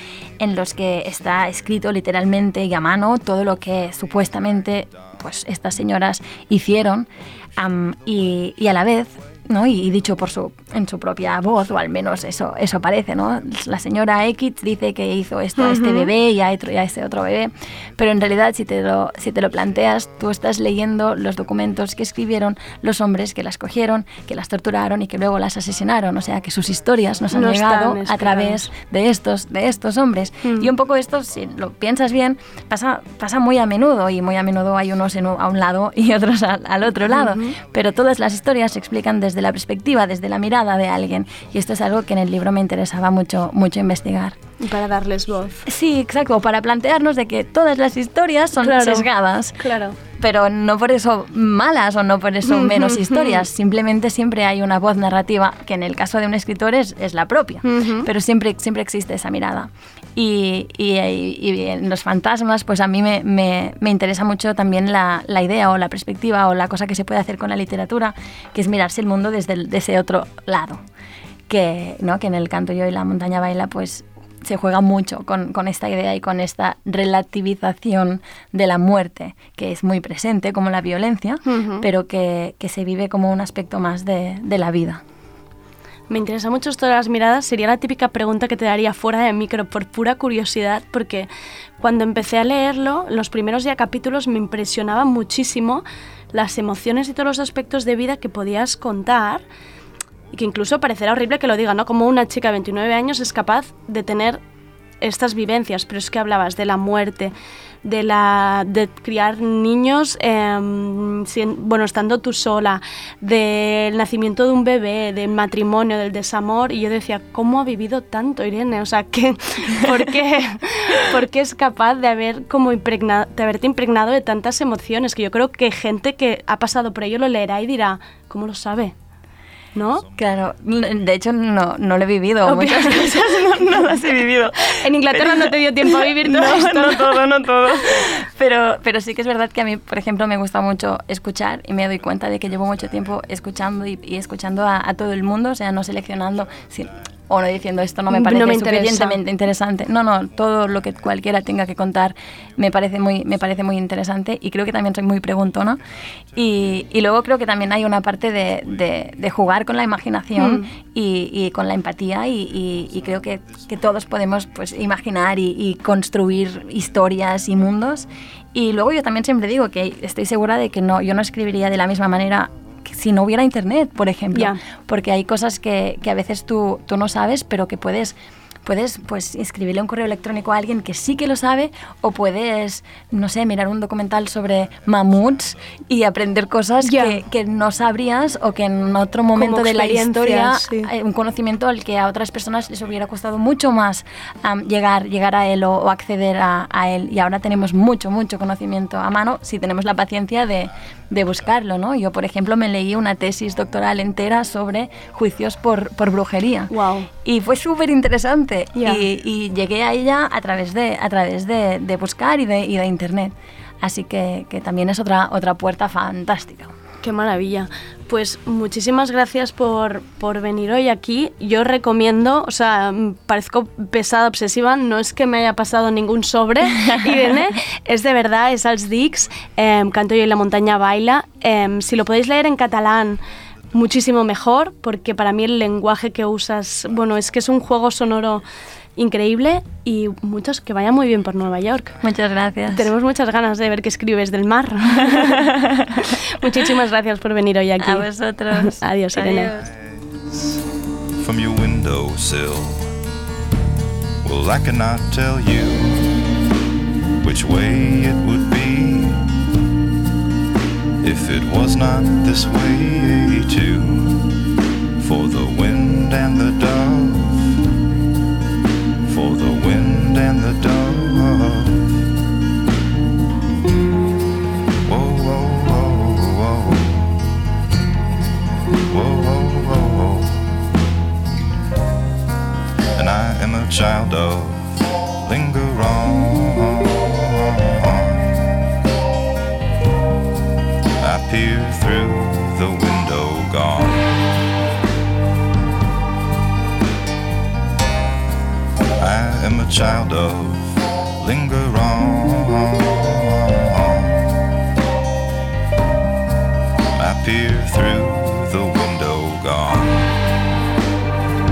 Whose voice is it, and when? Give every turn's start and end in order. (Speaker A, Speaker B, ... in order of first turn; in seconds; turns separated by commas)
Speaker A: 0.4-44.4, Speaker B: 15.6-16.1, Speaker B: 27.3-28.7, Speaker B: 30.4-30.7, Speaker B: 37.1-37.5, Speaker B: 44.6-45.6, Speaker A: 45.6-70.8, Speaker B: 48.6-49.1, Speaker B: 49.6-50.0, Speaker B: 52.4-53.4, Speaker B: 57.6-58.0, Speaker A: 71.5-85.0, Speaker B: 81.5-81.8, Speaker B: 86.1-91.3, Speaker B: 91.8-99.4, Speaker B: 100.3-104.4, Speaker B: 105.0-107.3, Speaker B: 107.8-128.9, Speaker B: 129.7-130.1, Speaker A: 130.2-155.8, Speaker B: 132.4-133.2, Speaker B: 134.8-137.2, Speaker B: 148.1-149.2, Speaker A: 156.3-206.7, Speaker B: 174.3-174.6, Speaker B: 186.8-187.2, Speaker B: 189.3-190.9, Speaker B: 206.7-207.1, Speaker A: 207.2-216.7, Speaker B: 208.7-209.0, Speaker B: 217.0-233.2, Speaker A: 226.8-227.3, Speaker B: 233.7-238.4, Speaker B: 239.0-242.0, Speaker A: 242.0-242.9, Speaker B: 242.7-245.4, Speaker A: 245.1-245.9, Speaker B: 246.3-249.5, Speaker A: 247.8-249.7, Speaker C: 249.8-250.2, Speaker C: 251.2-252.8, Speaker C: 254.2-256.3, Speaker C: 257.2-259.4, Speaker C: 261.0-264.4, Speaker C: 265.0-267.6, Speaker C: 269.1-272.1, Speaker C: 274.9-277.3, Speaker C: 278.9-280.5, Speaker C: 282.9-288.4, Speaker C: 291.0-294.1, Speaker C: 299.0-304.2, Speaker C: 306.9-310.2